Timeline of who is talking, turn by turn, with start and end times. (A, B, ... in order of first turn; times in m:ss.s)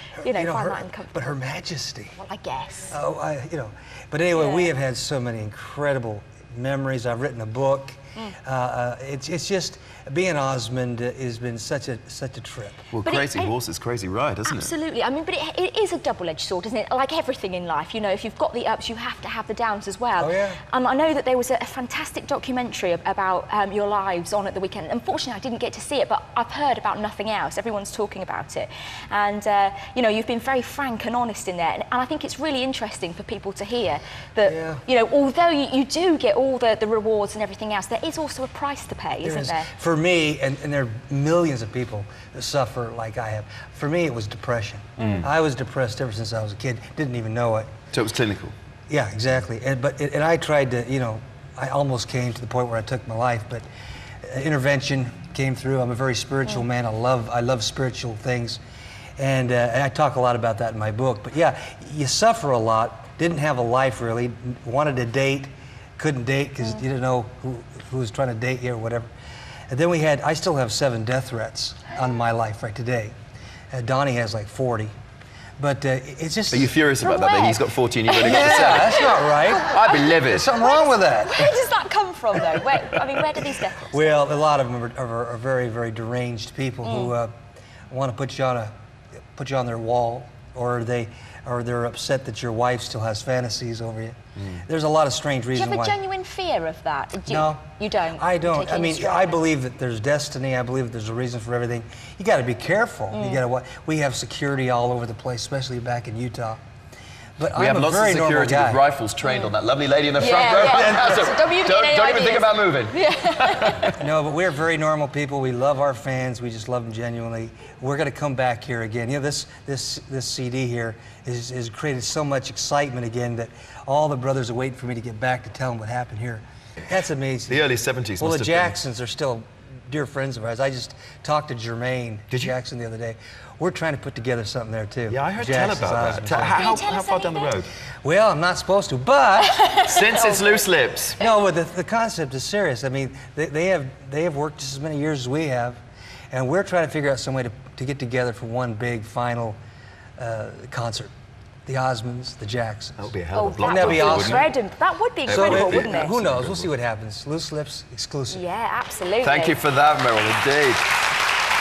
0:00.2-0:02.2 A
0:00.3-0:01.2 B
0:02.3-0:02.9 B
0:02.9-0:12.9 A
0:12.9-0:14.7 C
0:13.1-0:13.5 B
0:15.0-0:20.2 B
0:20.2-0:20.6 A
0:20.8-0:34.0 B
0:34.4-0:34.8 A
0:34.9-0:39.5 B
0:39.2-0:47.7 A
0:45.0-0:45.3 C
0:47.9-0:48.5 C
0:48.9-0:53.7 A
0:54.2-0:58.6 A
0:59.2-1:09.1 A
1:09.7-1:13.1 A
1:13.7-1:14.9 A
1:15.6-1:16.7 A
1:16.5-1:20.6 C
1:17.2-1:17.5 B
1:18.2-1:21.6 A
1:21.3-1:23.8 B
1:22.5-1:27.3 A
1:27.9-1:28.7 A
1:29.4-1:36.0 A
1:34.4-1:34.6 C
1:35.6-1:37.3 B
1:37.2-1:46.6 A
1:38.5-1:39.2 B
1:47.4-1:48.8 A
1:47.5-1:54.0 C
1:50.3-1:50.7 B
1:50.7-1:51.1 A
1:51.2-1:52.4 B
1:54.0-2:07.6 A
2:07.5-2:08.7 C
2:08.2-2:16.7 A
2:12.3-2:12.5 C
2:15.1-2:17.7 C
2:16.7-2:17.5 B
2:18.0-2:19.6 A
2:19.8-2:21.2 C
2:21.2-2:25.8 A
2:26.3-2:29.6 A
2:30.2-2:31.1 A
2:31.6-2:33.1 A
2:33.0-2:34.5 C
2:33.4-2:34.3 B
2:33.6-2:34.5 A
2:35.2-2:36.7 C
2:35.3-2:38.4 A
2:35.7-2:36.0 B
2:38.6-2:39.5 B
2:39.2-2:40.8 C